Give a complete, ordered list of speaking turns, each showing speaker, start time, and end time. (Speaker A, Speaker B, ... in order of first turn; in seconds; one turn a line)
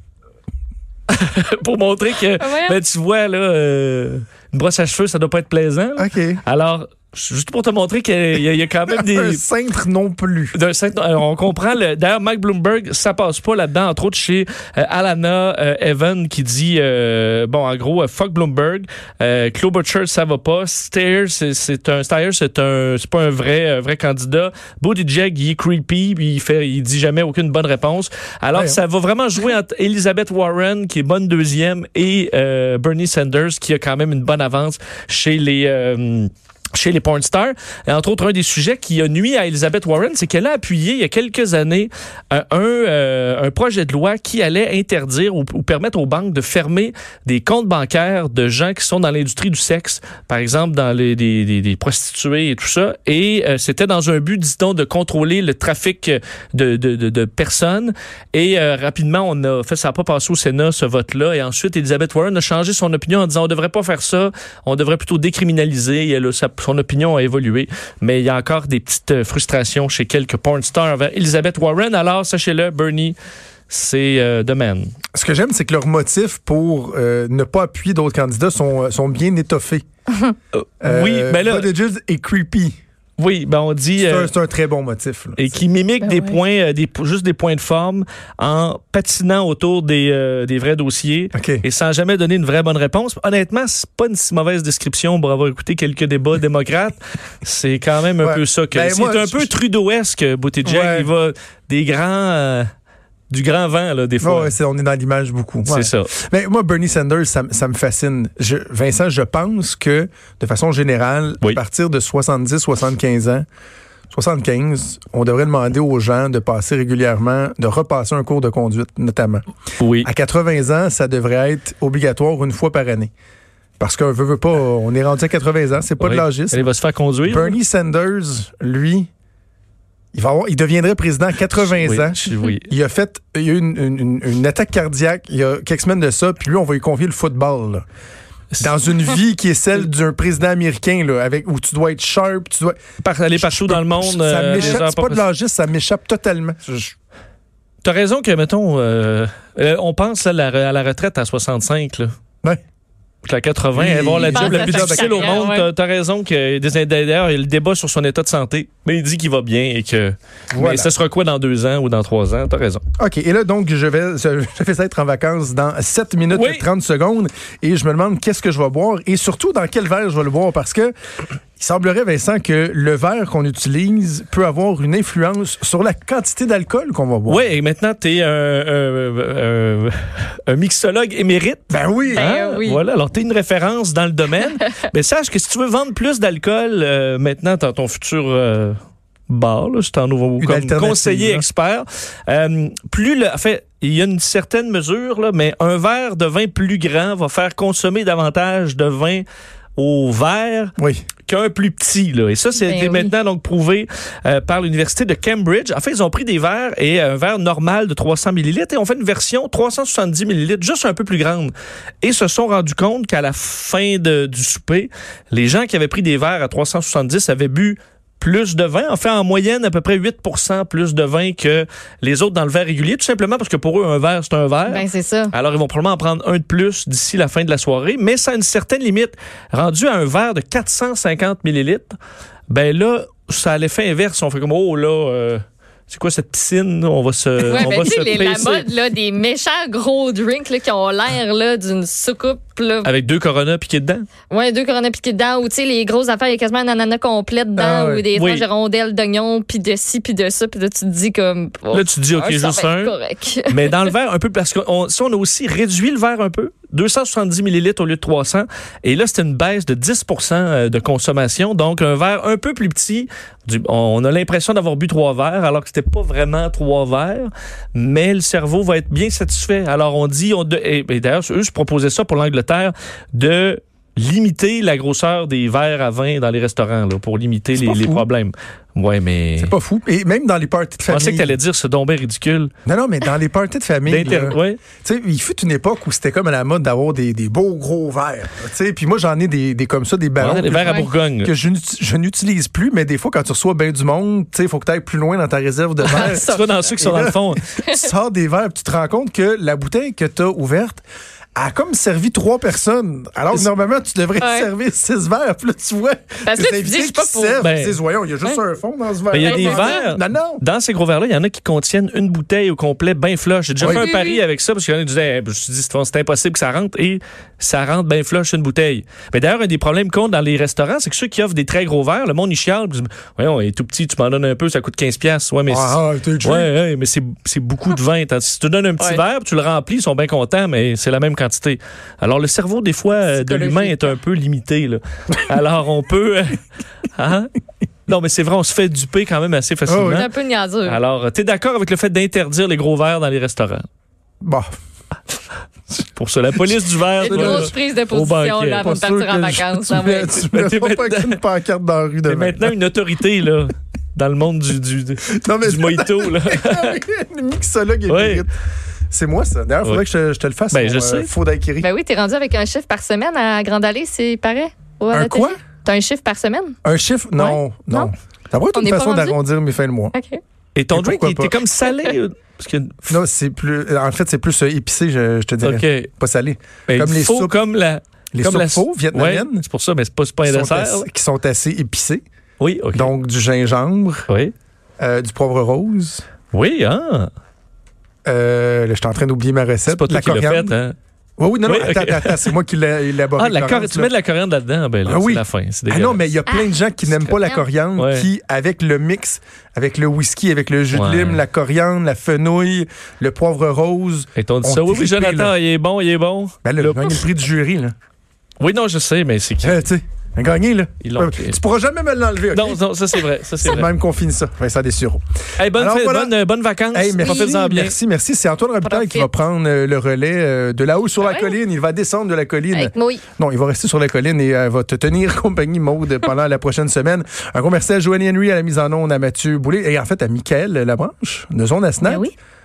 Speaker A: 1.1-9.4
Speaker B: 2.4-2.8
Speaker C: 6.0-6.4
Speaker C: 8.9-10.6
Speaker A: 10.5-73.2
Speaker C: 28.5-28.8
Speaker A: 73.7-74.9
Speaker C: 75.1-79.8
Speaker A: 80.5-81.7
Speaker C: 80.8-82.8
Speaker A: 83.2-84.3
Speaker C: 84.0-85.4
Speaker A: 85.4-102.7
Speaker B: 86.1-86.3
Speaker C: 91.3-91.6
Speaker C: 98.2-99.5
Speaker C: 100.7-101.1
Speaker A: 103.3-104.5
Speaker C: 104.2-113.5
Speaker A: 105.7-106.1
Speaker C: 114.1-119.4
Speaker A: 119.8-120.1
Speaker C: 120.0-123.1
Speaker C: 123.8-126.6
Speaker A: 126.0-127.6
Speaker C: 127.3-129.1
Speaker C: 130.1-137.8
Speaker A: 131.6-132.7
Speaker C: 138.6-142.8
Speaker A: 143.0-145.2
Speaker C: 143.3-146.9
Speaker A: 147.8-152.1
Speaker A: 153.2-162.8
Speaker C: 153.7-155.5
Speaker B: 154.2-155.7
Speaker C: 160.5-160.9
Speaker C: 163.0-170.9
Speaker A: 166.3-166.7
Speaker C: 171.6-177.5
Speaker A: 177.3-188.8
Speaker C: 181.7-182.3
Speaker B: 182.1-182.8
Speaker B: 184.4-184.7
Speaker A: 189.3-199.2
Speaker C: 190.4-191.5
Speaker A: 199.8-200.7
Speaker C: 200.8-201.0
Speaker A: 201.3-231.9
Speaker B: 202.6-203.1
Speaker B: 224.7-225.3
Speaker A: 232.5-238.7
Speaker B: 237.4-242.9
Speaker A: 242.8-244.1
Speaker B: 244.3-253.9
Speaker C: 247.6-248.1
Speaker A: 248.2-248.5
Speaker A: 251.7-252.9
Speaker A: 253.5-279.5
Speaker C: 277.6-278.1
Speaker C: 279.4-281.4
Speaker A: 280.9-282.5
Speaker C: 282.7-300.8
Speaker A: 283.9-284.6
Speaker A: 290.2-291.3
Speaker B: 290.6-290.9
Speaker B: 295.8-296.7
Speaker A: 295.9-297.4
Speaker B: 297.6-297.9
Speaker C: 301.4-310.4
Speaker B: 304.2-304.5
Speaker B: 306.2-307.5
Speaker A: 307.4-307.8
Speaker A: 309.1-336.4
Speaker B: 309.2-309.9
Speaker C: 313.6-313.9
Speaker B: 313.6-314.2
Speaker C: 325.5-326.5
Speaker B: 333.1-334.0
Speaker A: 336.9-337.3
Speaker A: 337.9-340.1
Speaker C: 339.7-340.1
Speaker B: 339.9-340.8
Speaker A: 340.6-343.6
Speaker C: 344.2-344.5
Speaker A: 345.9-348.8
Speaker B: 347.0-350.2
Speaker C: 347.1-347.5
Speaker C: 348.6-352.5
Speaker A: 350.1-351.2
Speaker A: 352.1-356.8
Speaker C: 355.1-358.3
Speaker A: 357.9-358.2
Speaker C: 358.9-361.7
Speaker A: 360.5-361.1
Speaker B: 361.6-366.6
Speaker C: 364.9-365.4
Speaker C: 366.6-369.9
Speaker B: 367.2-367.9
Speaker B: 368.5-369.2
Speaker B: 369.9-370.2
Speaker A: 370.6-373.0
Speaker C: 370.7-371.4
Speaker B: 371.6-372.0
Speaker C: 372.9-377.4
Speaker A: 375.4-375.9
Speaker A: 376.7-380.9
Speaker C: 378.1-379.4
Speaker C: 380.2-382.0
Speaker A: 382.4-382.9
Speaker C: 382.7-384.1
Speaker A: 384.1-384.3
Speaker C: 384.8-386.0
Speaker A: 386.3-387.1
Speaker C: 388.1-390.6
Speaker A: 389.7-390.8
Speaker C: 391.2-393.9
Speaker A: 391.4-392.3
Speaker A: 393.2-396.1
Speaker C: 394.9-405.3
Speaker B: 396.3-397.4
Speaker A: 397.8-398.1
Speaker A: 400.7-401.2
Speaker A: 404.2-407.0
Speaker C: 406.4-407.7
Speaker A: 408.4-409.7
Speaker C: 409.4-412.6
Speaker A: 410.8-411.4
Speaker A: 412.3-413.7
Speaker C: 413.4-416.1
Speaker A: 415.4-417.8
Speaker C: 416.7-432.1
Speaker B: 417.0-417.3
Speaker B: 418.6-419.1
Speaker B: 421.0-421.4
Speaker B: 422.5-423.0
Speaker B: 431.8-432.1